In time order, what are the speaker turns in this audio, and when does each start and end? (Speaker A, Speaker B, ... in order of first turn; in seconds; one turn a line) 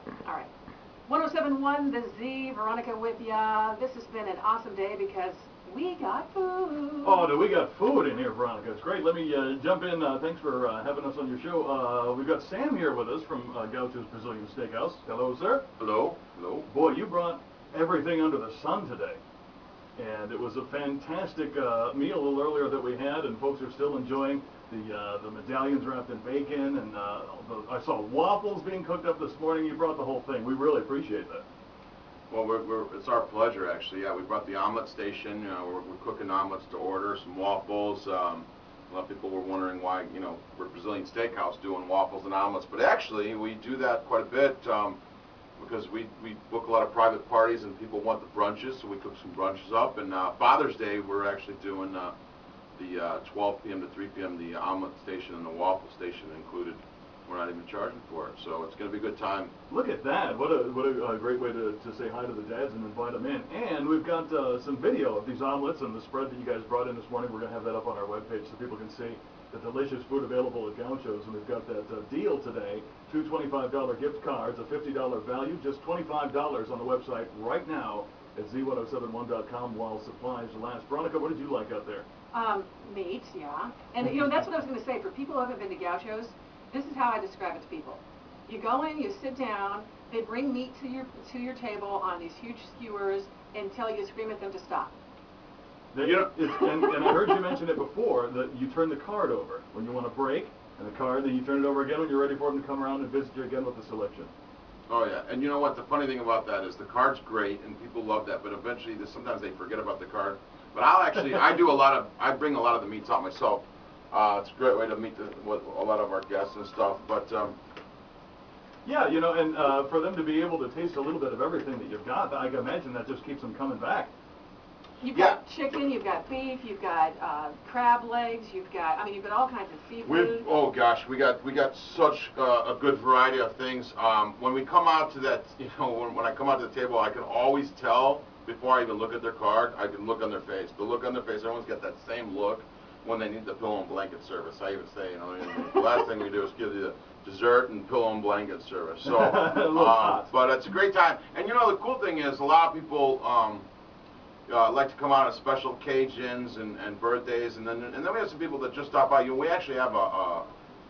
Speaker A: 1.1-7.3
Speaker B: 7.0-15.7
Speaker C: 15.8-16.7
Speaker B: 16.7-19.2
Speaker B: 20.0-31.4
Speaker C: 32.3-45.0
Speaker C: 45.6-52.1
Speaker C: 52.8-59.5
Speaker B: 59.7-82.1
Speaker A: 82.3-94.9
Speaker B: 95.9-104.3
Speaker C: 96.0-96.3
Speaker C: 104.9-117.6
Speaker B: 118.8-124.1
Speaker A: 125.0-130.5
Speaker C: 125.1-125.4
Speaker C: 130.0-153.7
Speaker B: 149.0-150.3
Speaker C: 154.5-160.4